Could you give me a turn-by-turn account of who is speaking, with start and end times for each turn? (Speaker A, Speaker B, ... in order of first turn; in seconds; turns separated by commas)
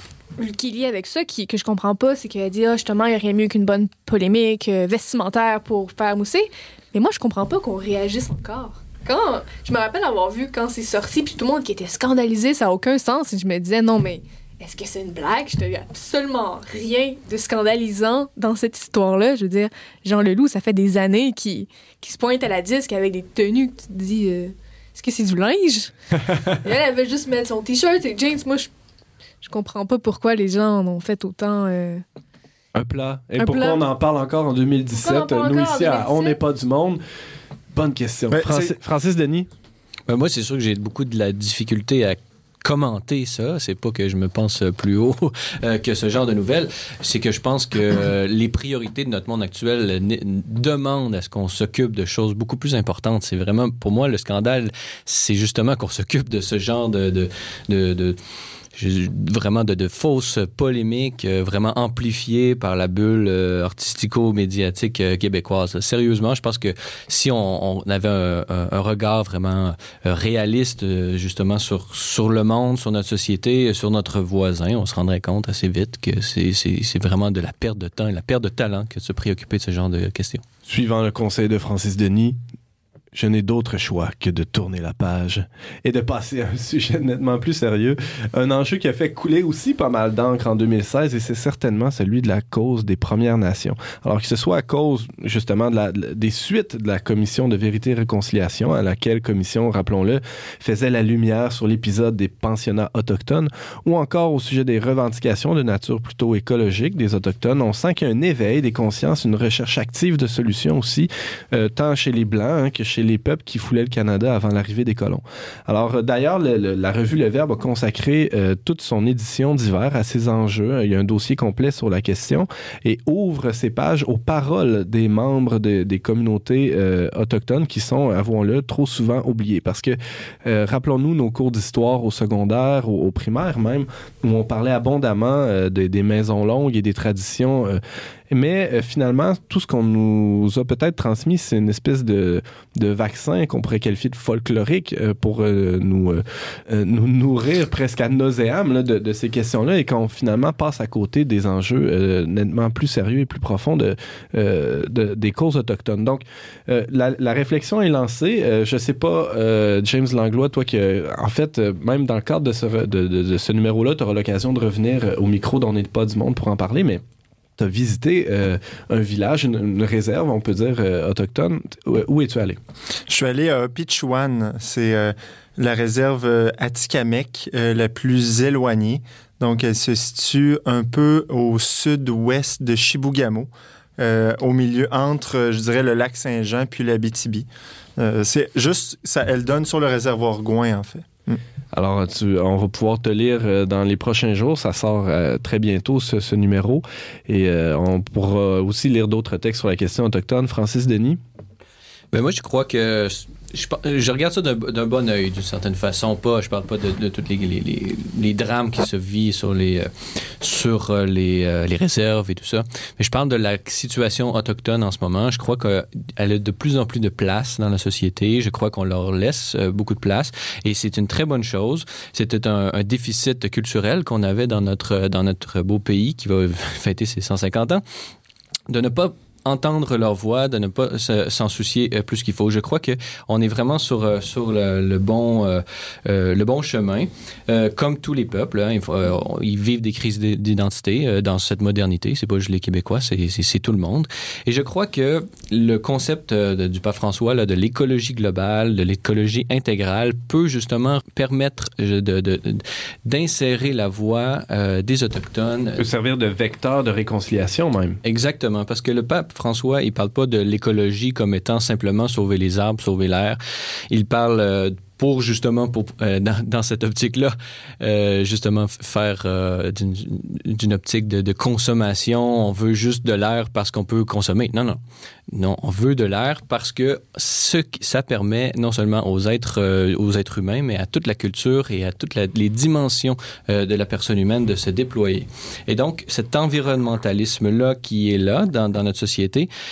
Speaker A: 0.4-28.7, Speaker A: 29.4-32.0, Speaker B: 32.8-37.0, Speaker A: 33.4-33.8, Speaker A: 35.0-36.4, Speaker B: 37.7-39.5, Speaker C: 38.3-38.7, Speaker D: 40.1-58.2, Speaker D: 58.8-80.4, Speaker B: 80.7-82.4, Speaker B: 83.1-137.8, Speaker B: 138.3-167.0, Speaker B: 167.6-172.6, Speaker C: 173.1-191.4, Speaker B: 191.7-201.2, Speaker D: 202.1-209.9, Speaker D: 210.4-227.8, Speaker D: 228.7-255.8, Speaker B: 255.8-258.0, Speaker D: 258.0-263.4, Speaker D: 263.9-274.8, Speaker D: 275.3-289.5